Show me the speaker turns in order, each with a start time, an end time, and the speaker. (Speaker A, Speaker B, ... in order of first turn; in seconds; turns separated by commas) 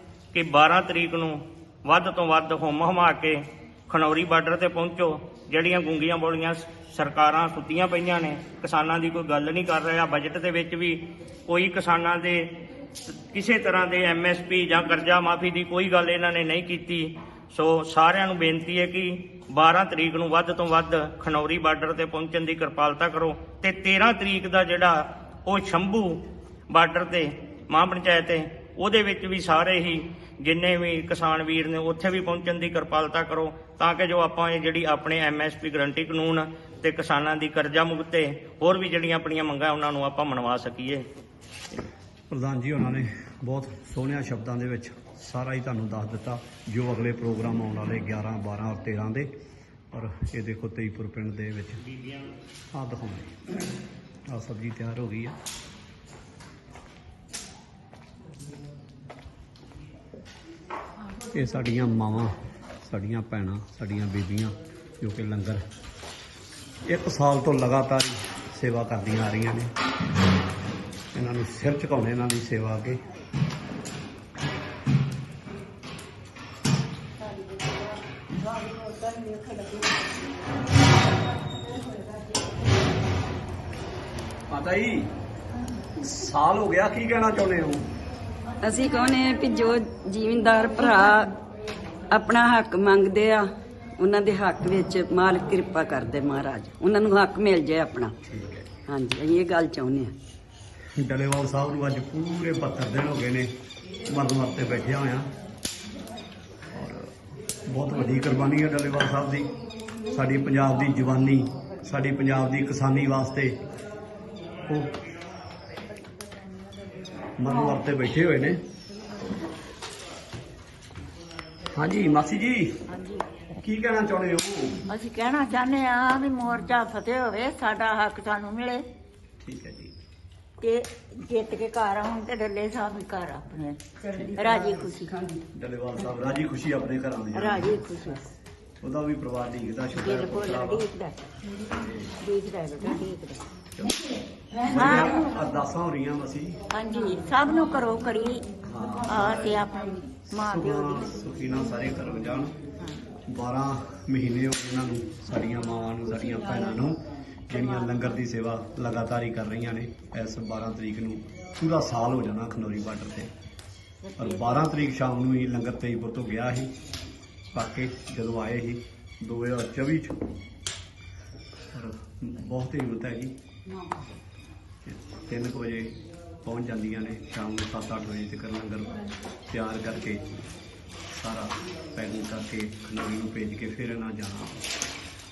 Speaker A: 0.3-41.1, Speaker B: 42.3-49.3, Speaker B: 49.9-51.8, Speaker A: 51.9-52.2, Speaker B: 52.7-53.4, Speaker B: 54.3-55.4, Speaker B: 61.3-65.6, Speaker B: 66.9-69.7, Speaker B: 71.1-73.0, Speaker C: 78.6-80.0, Speaker B: 84.5-85.1, Speaker B: 86.0-87.9, Speaker D: 88.6-91.4, Speaker D: 92.1-98.2, Speaker B: 98.3-98.7, Speaker D: 98.9-100.2, Speaker B: 101.0-103.5, Speaker B: 104.1-105.3, Speaker B: 106.7-107.1, Speaker B: 107.7-109.5, Speaker B: 110.1-113.6, Speaker B: 114.7-115.0, Speaker B: 117.4-118.6, Speaker B: 121.8-122.9, Speaker C: 122.9-123.2, Speaker B: 123.6-124.9, Speaker C: 124.9-128.8, Speaker B: 129.4-129.9, Speaker C: 130.6-133.8, Speaker C: 134.3-135.1, Speaker D: 135.1-135.4, Speaker B: 135.5-137.9, Speaker C: 137.3-138.2, Speaker B: 138.8-140.8, Speaker C: 139.9-141.3, Speaker B: 141.8-142.1, Speaker C: 142.2-143.5, Speaker B: 143.8-144.0, Speaker B: 144.6-146.6, Speaker C: 144.7-145.4, Speaker C: 146.7-148.5, Speaker B: 148.6-149.6, Speaker C: 149.1-151.1, Speaker B: 150.3-152.6, Speaker B: 153.3-163.3, Speaker B: 164.2-166.7, Speaker B: 167.5-170.2, Speaker B: 171.7-173.3, Speaker B: 174.8-180.3, Speaker B: 181.1-184.7